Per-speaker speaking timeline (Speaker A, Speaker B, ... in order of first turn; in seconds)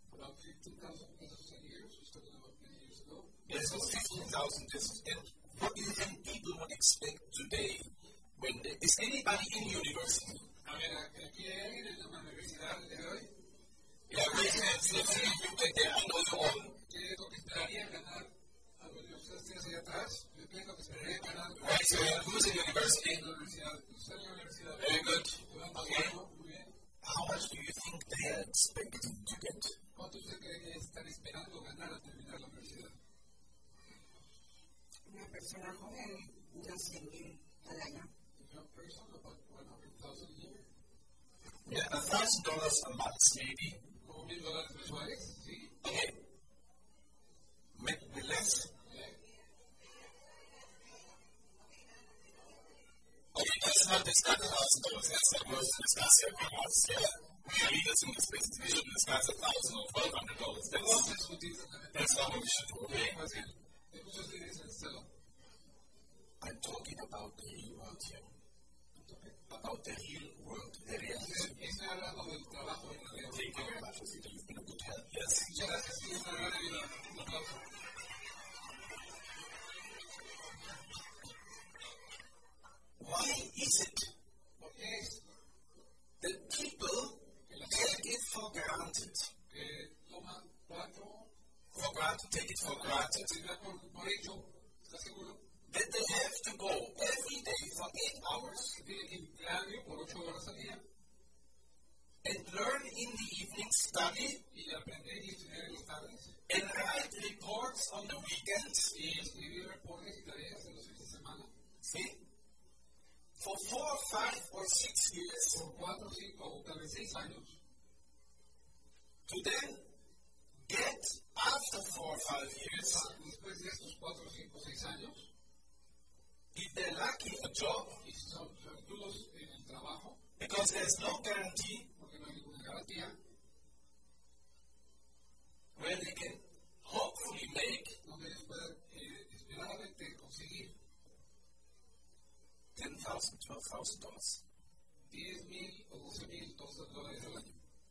Speaker A: 0.1-4.0, 10.6-13.3, 14.1-15.9, 16.7-26.7, 29.9-33.0, 38.3-40.7, 44.0-45.8, 48.9-49.1, 55.2-55.5, 60.7-65.1, 69.0-69.3, 71.1-73.8, 75.4-77.7, 84.6-85.2, 87.5-87.9, 89.5-91.3, 92.8-95.4, 98.7-100.8, 104.5-106.4, 108.9-111.5, 115.5-117.6, 122.8-125.3, 128.0-130.2, 131.9-133.2, 138.0-140.7, 145.1-147.6
Speaker B: 3.5-10.5, 14.1-16.8, 21.6-23.3, 24.8-26.2, 27.0-29.7, 41.6-43.8, 45.8-46.2, 47.7-48.7, 53.3-61.1, 61.9-63.2, 66.4-68.3, 69.5-71.6, 73.2-75.7, 83.0-84.1, 86.2-89.3, 91.7-93.4, 95.7-98.8, 102.2-104.4, 106.5-108.9, 111.8-112.2, 113.4-115.6, 119.2-119.9, 120.7-123.1, 126.5-128.0, 130.4-131.9, 135.7-138.0, 142.7-144.4
Speaker C: 35.0-38.1